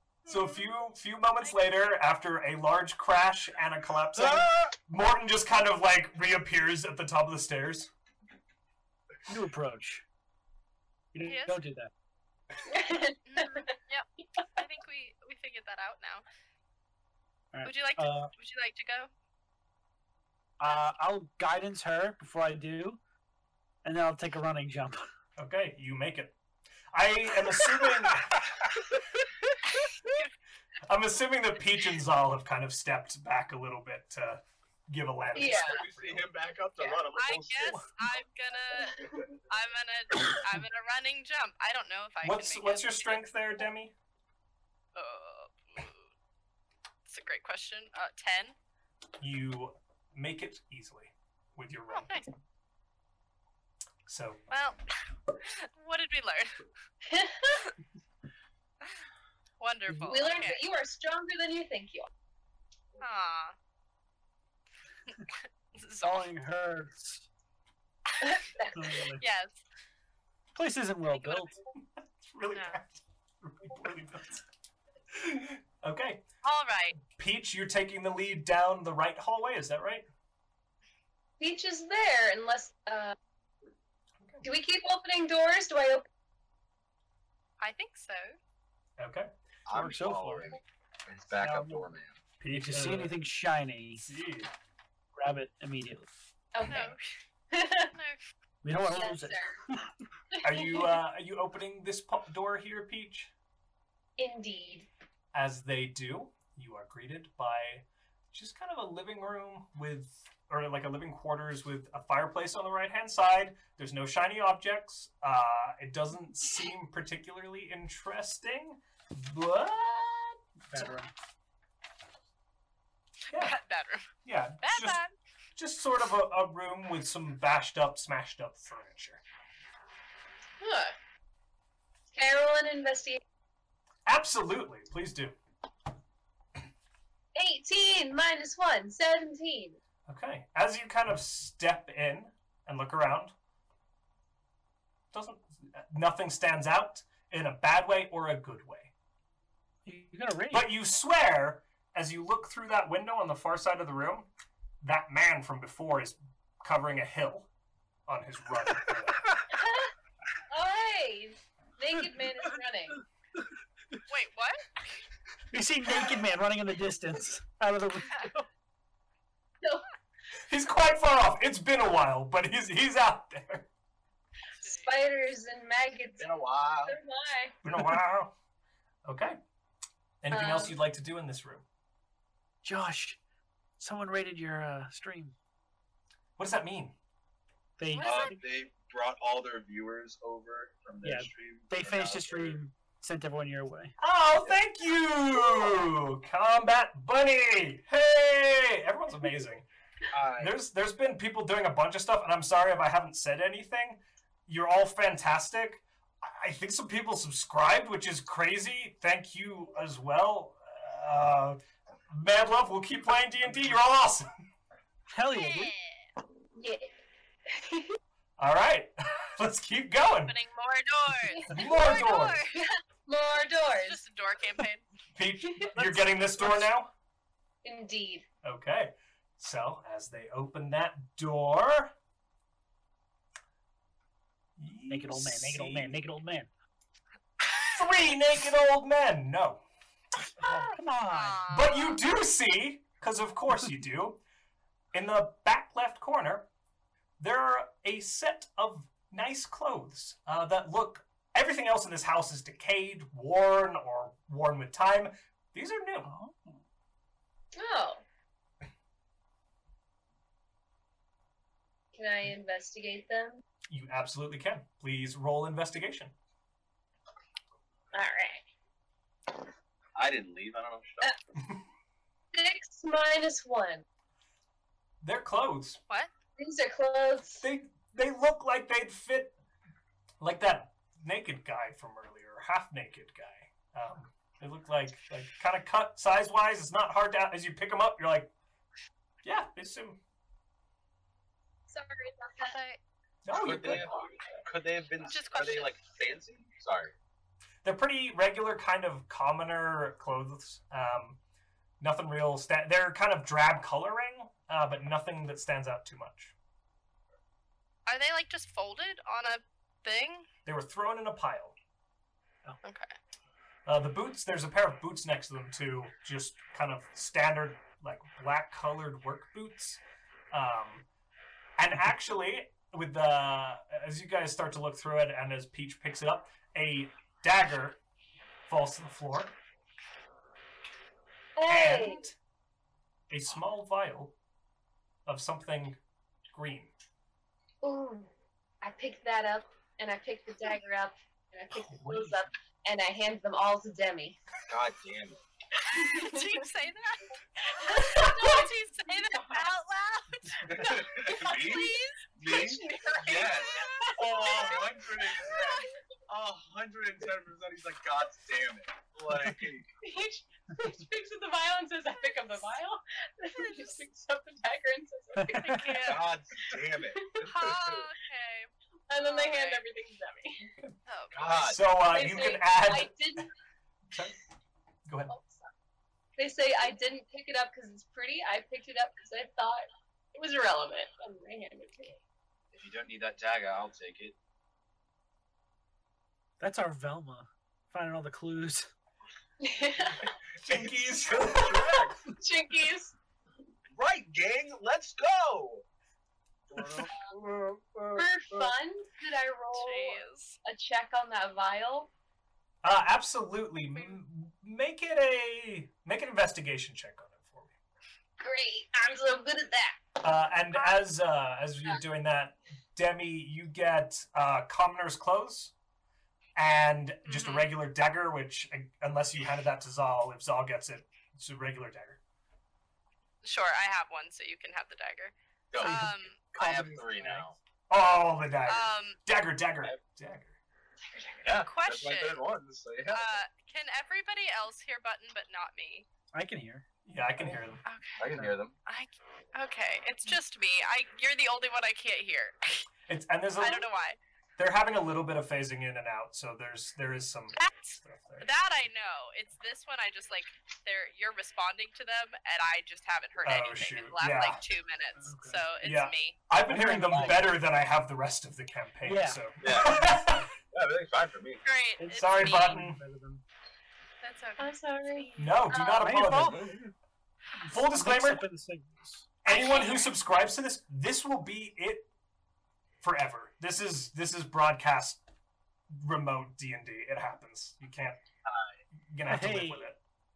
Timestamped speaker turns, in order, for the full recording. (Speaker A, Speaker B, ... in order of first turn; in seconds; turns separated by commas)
Speaker A: 0.3-7.9, Speaker B: 4.2-4.7, Speaker C: 9.3-10.0, Speaker C: 11.1-11.9, Speaker D: 11.2-11.6, Speaker E: 12.7-13.7, Speaker D: 13.3-16.2, Speaker C: 17.5-18.3, Speaker D: 17.6-19.1, Speaker C: 20.6-23.0, Speaker C: 23.8-25.1, Speaker A: 25.4-26.4, Speaker A: 26.9-28.7, Speaker D: 29.8-30.3, Speaker A: 30.9-36.3, Speaker E: 35.4-35.8, Speaker B: 35.4-37.9, Speaker D: 36.8-43.2, Speaker A: 42.2-43.9, Speaker D: 45.0-46.1, Speaker D: 47.1-48.6, Speaker A: 49.2-52.1, Speaker D: 51.9-52.3, Speaker A: 54.1-54.4, Speaker D: 54.5-54.8, Speaker D: 55.4-56.6, Speaker E: 57.0-57.7, Speaker D: 59.6-60.6, Speaker E: 59.9-62.1, Speaker D: 63.0-63.5, Speaker D: 65.8-66.3, Speaker C: 66.0-67.3, Speaker E: 68.2-69.0, Speaker C: 68.7-69.2, Speaker D: 69.2-69.5, Speaker C: 70.5-71.6, Speaker D: 71.1-71.6, Speaker A: 72.2-74.4, Speaker D: 72.5-72.8, Speaker A: 75.1-76.2, Speaker D: 76.4-77.0, Speaker A: 77.0-80.1, Speaker E: 81.4-83.2, Speaker E: 84.4-86.1, Speaker D: 87.6-88.4, Speaker A: 89.0-89.3, Speaker B: 89.7-92.2, Speaker C: 89.7-90.6, Speaker C: 91.4-91.9, Speaker A: 92.4-93.2, Speaker C: 92.5-94.1, Speaker A: 94.0-94.5, Speaker C: 95.2-96.1, Speaker E: 96.5-97.0, Speaker D: 96.7-97.0, Speaker E: 97.5-97.9, Speaker D: 97.9-98.2, Speaker C: 98.6-99.9, Speaker E: 98.9-99.6, Speaker E: 100.4-101.0, Speaker A: 100.4-103.3, Speaker E: 104.2-104.9, Speaker A: 105.3-120.9, Speaker C: 120.7-121.1, Speaker A: 123.3-123.6, Speaker D: 123.3-124.1, Speaker A: 124.2-125.0, Speaker D: 124.6-125.1, Speaker A: 125.6-129.2, Speaker E: 130.6-131.0, Speaker E: 132.1-133.2, Speaker A: 134.1-135.4, Speaker E: 137.3-139.8, Speaker A: 140.1-143.3, Speaker A: 145.1-148.9, Speaker C: 149.8-150.7, Speaker A: 150.5-154.3, Speaker A: 154.8-157.5, Speaker A: 158.1-159.4, Speaker E: 159.5-159.9, Speaker E: 160.5-163.0, Speaker D: 164.1-164.7, Speaker C: 165.5-168.5, Speaker A: 170.5-173.7, Speaker D: 174.6-174.9, Speaker E: 174.6-176.3, Speaker B: 176.2-177.0, Speaker E: 176.9-177.6, Speaker A: 177.6-178.3, Speaker A: 179.1-179.4, Speaker A: 180.2-181.7, Speaker E: 180.3-180.8, Speaker C: 182.6-183.2, Speaker C: 183.8-185.3, Speaker A: 186.4-187.0, Speaker C: 187.8-188.4, Speaker E: 188.0-188.3, Speaker B: 188.0-192.6, Speaker C: 191.0-193.9, Speaker A: 194.0-199.7, Speaker B: 200.1-200.6, Speaker A: 200.4-211.6, Speaker A: 212.1-214.3, Speaker C: 215.1-215.7, Speaker D: 215.3-216.0, Speaker E: 216.6-216.9, Speaker E: 217.5-218.0, Speaker A: 218.4-220.4, Speaker D: 220.2-222.6, Speaker E: 221.3-224.0, Speaker A: 221.5-222.4, Speaker D: 223.7-224.9, Speaker A: 225.2-226.9, Speaker E: 225.5-225.8, Speaker C: 225.8-226.7, Speaker E: 227.6-228.3, Speaker A: 228.4-231.9, Speaker A: 234.6-236.0, Speaker C: 234.9-236.5, Speaker A: 237.7-239.6, Speaker C: 240.4-241.4, Speaker D: 241.1-242.0, Speaker A: 241.5-244.2, Speaker A: 244.9-246.5, Speaker A: 247.2-256.1, Speaker C: 256.1-256.6, Speaker E: 257.6-258.0, Speaker E: 261.9-263.4, Speaker A: 263.7-266.1, Speaker E: 267.9-268.4, Speaker B: 270.0-271.1, Speaker E: 272.3-273.8, Speaker A: 275.0-275.8, Speaker E: 276.4-277.5, Speaker A: 277.4-279.4, Speaker A: 280.2-288.3, Speaker A: 289.2-290.0, Speaker E: 291.7-292.6, Speaker D: 292.4-292.8, Speaker A: 293.2-293.9, Speaker B: 293.3-296.9, Speaker D: 295.1-295.9, Speaker A: 297.6-301.2, Speaker A: 301.8-306.3, Speaker D: 307.9-310.3, Speaker A: 310.5-311.6, Speaker D: 312.6-312.9, Speaker A: 313.7-319.8, Speaker A: 320.3-320.9, Speaker A: 321.6-327.8, Speaker A: 328.5-329.4, Speaker E: 331.4-332.1, Speaker A: 331.5-332.2, Speaker A: 333.1-334.2, Speaker A: 335.1-336.7, Speaker E: 337.6-338.1, Speaker E: 338.6-344.2, Speaker A: 341.6-342.2, Speaker B: 344.5-345.2, Speaker E: 345.6-346.4, Speaker D: 345.7-352.1, Speaker E: 347.5-349.5, Speaker B: 350.5-359.7, Speaker E: 350.6-355.7, Speaker D: 353.1-354.7, Speaker E: 359.8-366.0, Speaker D: 362.0-362.5, Speaker D: 363.3-363.8, Speaker C: 365.2-365.7, Speaker D: 365.4-366.1, Speaker B: 365.9-367.9, Speaker D: 367.2-369.6, Speaker E: 368.9-370.5, Speaker D: 370.9-371.3, Speaker B: 371.1-371.6, Speaker A: 371.3-373.0, Speaker E: 371.9-373.3, Speaker A: 373.9-374.2, Speaker A: 374.9-375.1, Speaker E: 375.1-375.5, Speaker E: 376.2-382.0, Speaker B: 382.5-384.2, Speaker C: 386.4-388.7, Speaker E: 389.4-390.1, Speaker A: 390.4-391.9, Speaker B: 390.5-392.0, Speaker E: 391.6-392.9, Speaker B: 393.7-395.6, Speaker B: 396.5-398.5, Speaker C: 396.6-396.8, Speaker E: 397.9-401.9, Speaker D: 399.5-400.4, Speaker A: 402.6-407.5, Speaker E: 408.2-410.0, Speaker A: 410.0-415.5, Speaker A: 416.4-422.0, Speaker D: 417.1-417.5, Speaker D: 423.2-426.2, Speaker B: 425.5-427.4, Speaker C: 425.6-427.4, Speaker A: 427.7-430.4, Speaker D: 428.5-429.0, Speaker E: 430.9-431.3, Speaker B: 431.2-433.2, Speaker D: 431.4-432.2, Speaker D: 432.9-435.9, Speaker C: 436.1-436.7, Speaker A: 436.9-437.6, Speaker D: 437.6-442.7, Speaker B: 438.0-438.6, Speaker A: 442.9-443.7, Speaker D: 443.4-444.0, Speaker A: 444.4-448.3, Speaker D: 447.4-456.2, Speaker A: 453.2-454.4, Speaker C: 455.0-455.4, Speaker A: 455.6-460.3, Speaker C: 456.5-457.3, Speaker B: 456.9-457.1, Speaker C: 458.9-459.2, Speaker B: 459.4-461.4, Speaker D: 461.4-462.6, Speaker C: 461.8-463.2, Speaker A: 462.0-462.8, Speaker D: 464.0-465.5, Speaker E: 464.4-465.9, Speaker A: 465.2-466.6, Speaker C: 465.8-466.7, Speaker B: 466.3-466.6, Speaker C: 467.4-469.1, Speaker A: 467.4-468.3, Speaker D: 469.3-469.9, Speaker A: 469.3-471.9, Speaker A: 472.8-475.0, Speaker A: 475.8-478.0, Speaker B: 478.3-478.5, Speaker A: 478.9-479.8, Speaker C: 479.1-479.7